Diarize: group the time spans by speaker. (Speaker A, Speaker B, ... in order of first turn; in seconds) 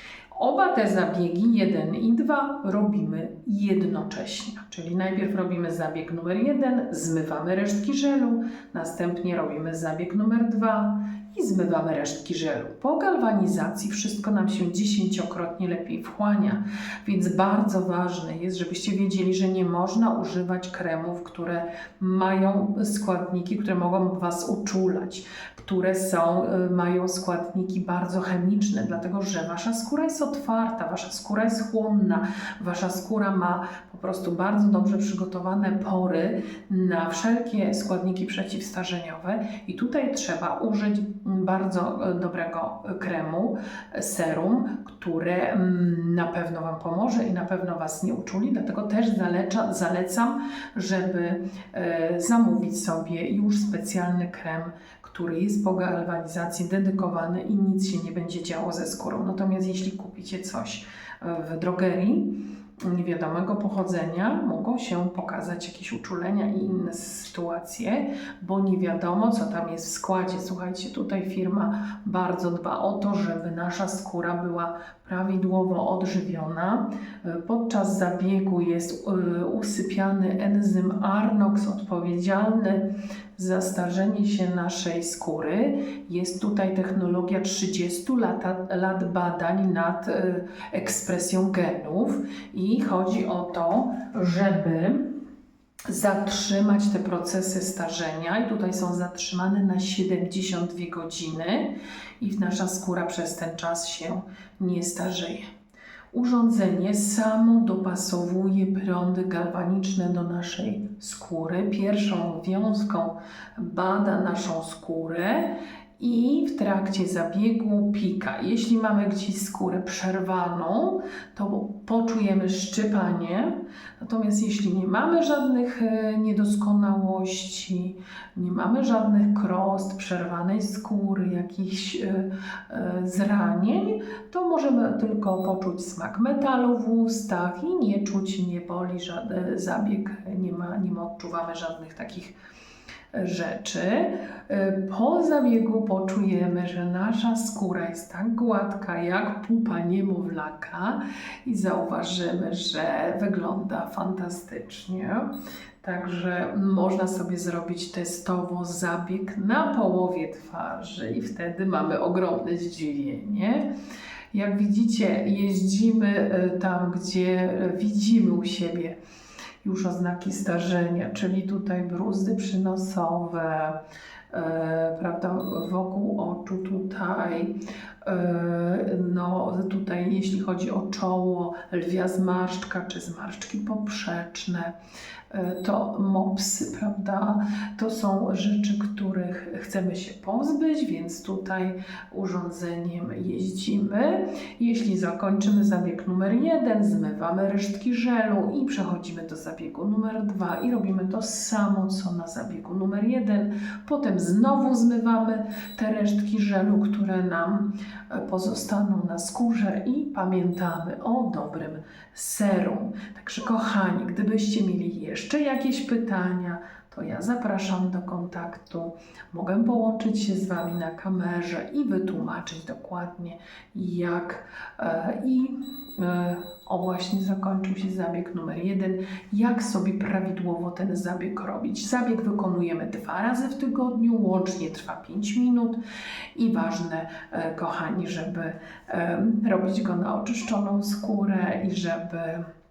Speaker A: 0.3-95.2, 95.9-105.5, 106.1-142.3, 143.1-163.7, 164.3-169.0, 169.6-184.7, 185.3-235.8, 236.3-242.4